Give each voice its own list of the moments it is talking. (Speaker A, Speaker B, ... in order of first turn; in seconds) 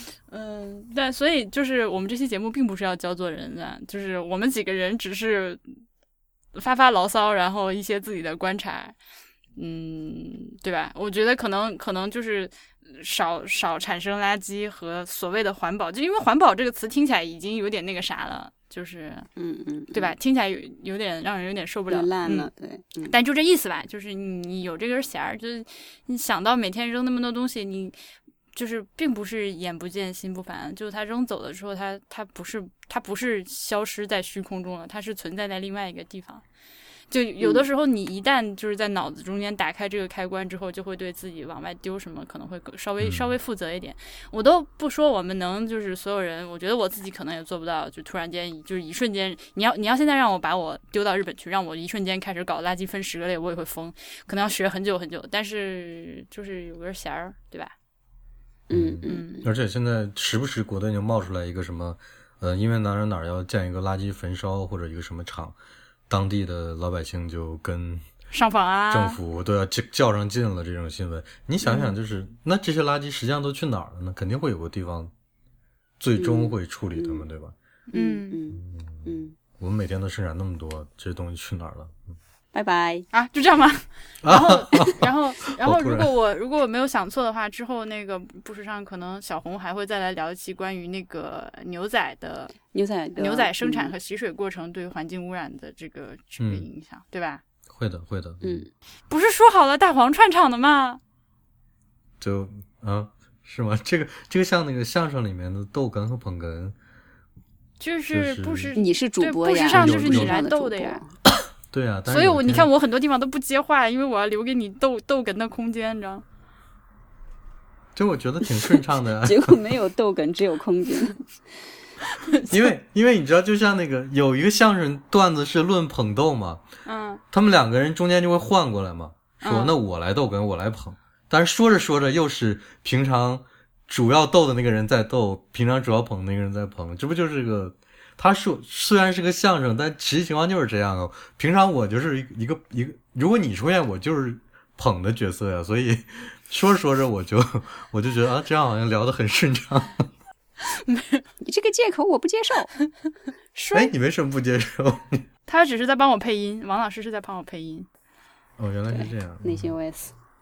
Speaker A: 0.3-5.6, 6.5-8.9, 9.6-19.3, 19.9-22.5, 23.1-27.9, 28.5-36.4, 37.1-57.7, 59.0-59.5, 68.3-69.2, 77.9-78.4, 83.1-92.5, 93.2-97.4, 99.1-101.0, 107.8-111.0, 112.1-116.2, 122.2-122.5, 126.8-127.2, 129.4-129.7, 150.6-151.2, 153.5-153.9, 155.5-157.9
Speaker B: 19.4-20.1, 21.9-23.1, 37.4-37.6, 58.7-59.5, 76.2-77.2, 77.9-79.3, 82.5-83.1, 92.7-93.9, 98.4-98.7, 108.8-111.1, 119.2-121.2, 151.4-152.7, 158.9-160.1
Speaker C: 43.0-43.3, 58.7-65.5, 66.1-68.0, 68.9-75.1, 76.0-77.5, 78.5-82.1, 84.2-86.1, 96.4-96.7, 97.7-98.7, 102.2-106.8, 108.1-108.7, 109.7-110.4, 111.7-112.7, 118.0-119.7, 122.4-126.7, 127.3-150.1, 153.7-155.3, 158.6-159.7